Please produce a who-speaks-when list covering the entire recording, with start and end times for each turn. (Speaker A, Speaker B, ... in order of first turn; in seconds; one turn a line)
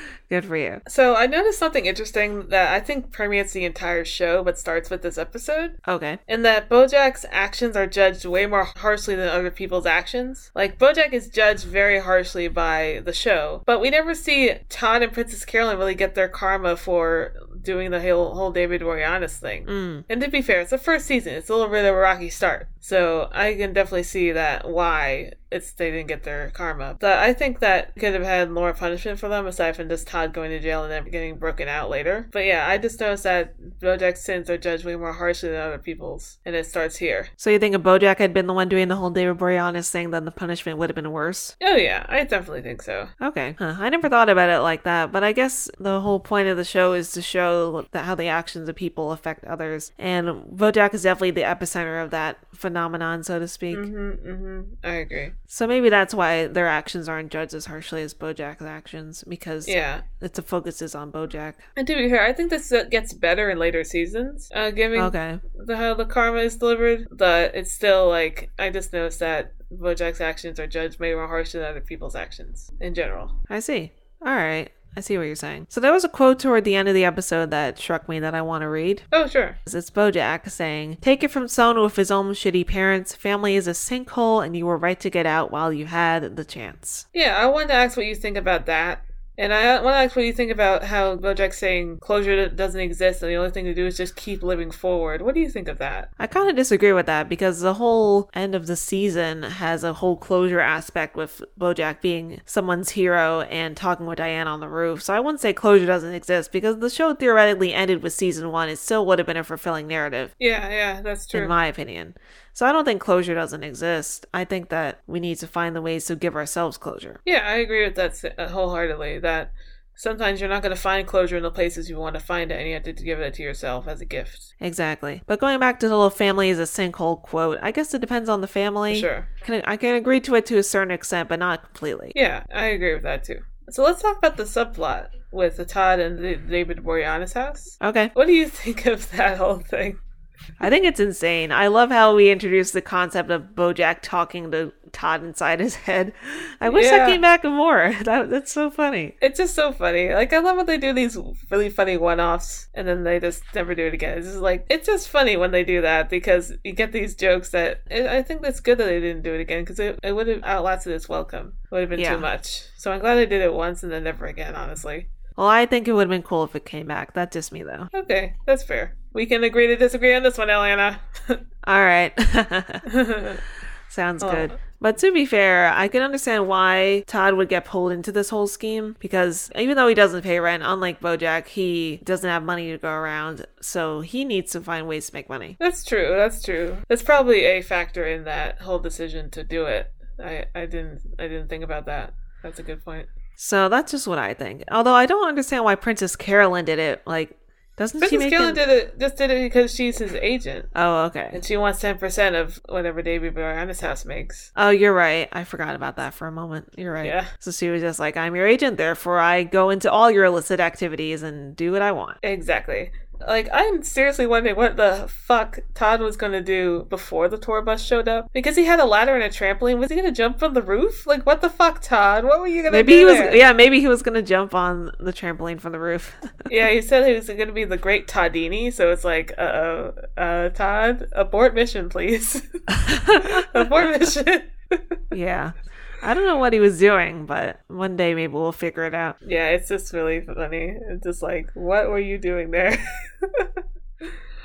Speaker A: 0.3-0.8
Speaker B: 0.8-37.3
Speaker A: 5.9-6.2
Speaker A: 19.7-20.1
Speaker A: 37.4-41.5
Speaker B: 41.6-43.1
Speaker A: 43.2-53.9
Speaker B: 53.7-55.3
Speaker A: 55.5-61.6
Speaker B: 59.6-60.0
Speaker B: 61.8-73.3
Speaker A: 64.9-65.4
Speaker A: 73.5-79.1
Speaker B: 79.1-79.6
Speaker A: 79.7-87.0
Speaker B: 87.1-96.1
Speaker A: 96.2-110.3
Speaker B: 110.4-111.6
Speaker A: 111.3-117.2
Speaker B: 117.2-124.5
Speaker A: 124.6-132.2
Speaker B: 128.9-129.3
Speaker B: 132.1-140.0
Speaker A: 137.8-138.1
Speaker A: 140.6-149.1
Speaker B: 146.7-147.2
Speaker B: 149.2-165.1
Speaker A: 161.9-162.3
Speaker A: 165.3-167.9
Speaker B: 167.9-171.4
Speaker A: 171.6-172.8
Speaker B: 172.8-173.4
Speaker A: 173.9-185.6
Speaker B: 174.2-174.5
Speaker B: 185.6-193.1
Speaker A: 193.4-198.6
Speaker B: 198.0-200.7
Speaker A: 200.7-201.4
Speaker B: 201.3-204.5
Speaker A: 204.6-212.2
Speaker B: 207.0-207.3
Speaker B: 212.2-223.4
Speaker A: 222.7-226.3
Speaker B: 226.5-232.5
Speaker A: 232.8-233.8
Speaker B: 233.1-235.0
Speaker A: 235.1-239.2
Speaker B: 239.2-243.5